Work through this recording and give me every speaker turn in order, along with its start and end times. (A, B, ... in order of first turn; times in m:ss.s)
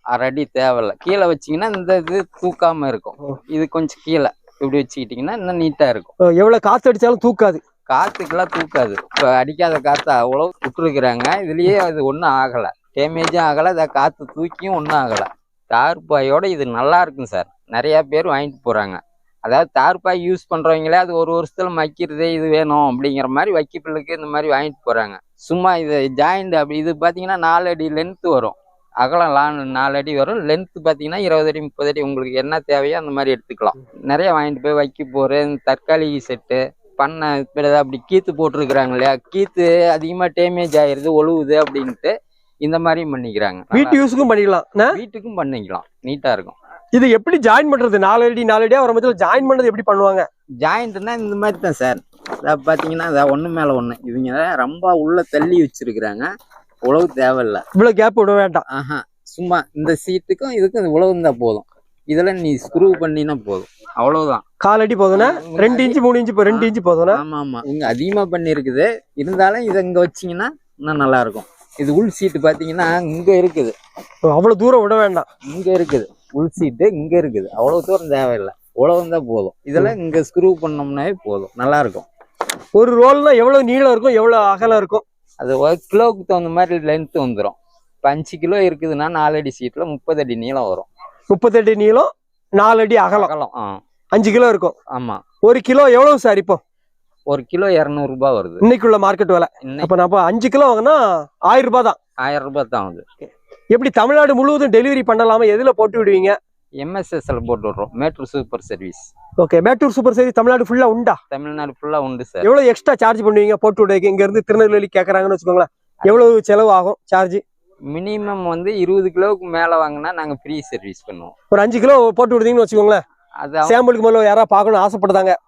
0:00.1-0:06.1 A
0:06.4-0:07.6 B
0:07.9-0:44.0 A
0:43.7-0:45.0 B
0:44.9-0:46.6 A
0:47.0-0:50.3 B
0:50.6-0:56.3 A
0:56.8-0:57.6 A
0:57.8-0:58.6 B
0:58.7-1:04.4 A
1:04.6-1:07.2 B
1:05.1-1:13.8 A
1:14.3-1:15.2 B
1:15.4-1:22.1 A
1:22.8-1:25.0 B
1:25.4-1:30.9 A
1:31.3-1:33.3 B
1:33.1-1:33.8 A
1:34.1-1:34.8 B
1:34.9-1:35.2 A
1:35.5-1:36.6 B
1:37.3-1:38.6 A
1:38.6-1:42.0 B
1:39.6-1:39.9 A
1:42.2-1:43.0 A
1:43.2-1:46.4 B
1:46.8-1:49.1 A
1:49.4-1:51.2 B
1:51.3-1:52.5 A
1:52.4-1:57.4 B
1:57.9-2:01.3 A
2:01.5-2:03.0 B
2:03.4-2:03.8 A
2:03.7-2:05.4 B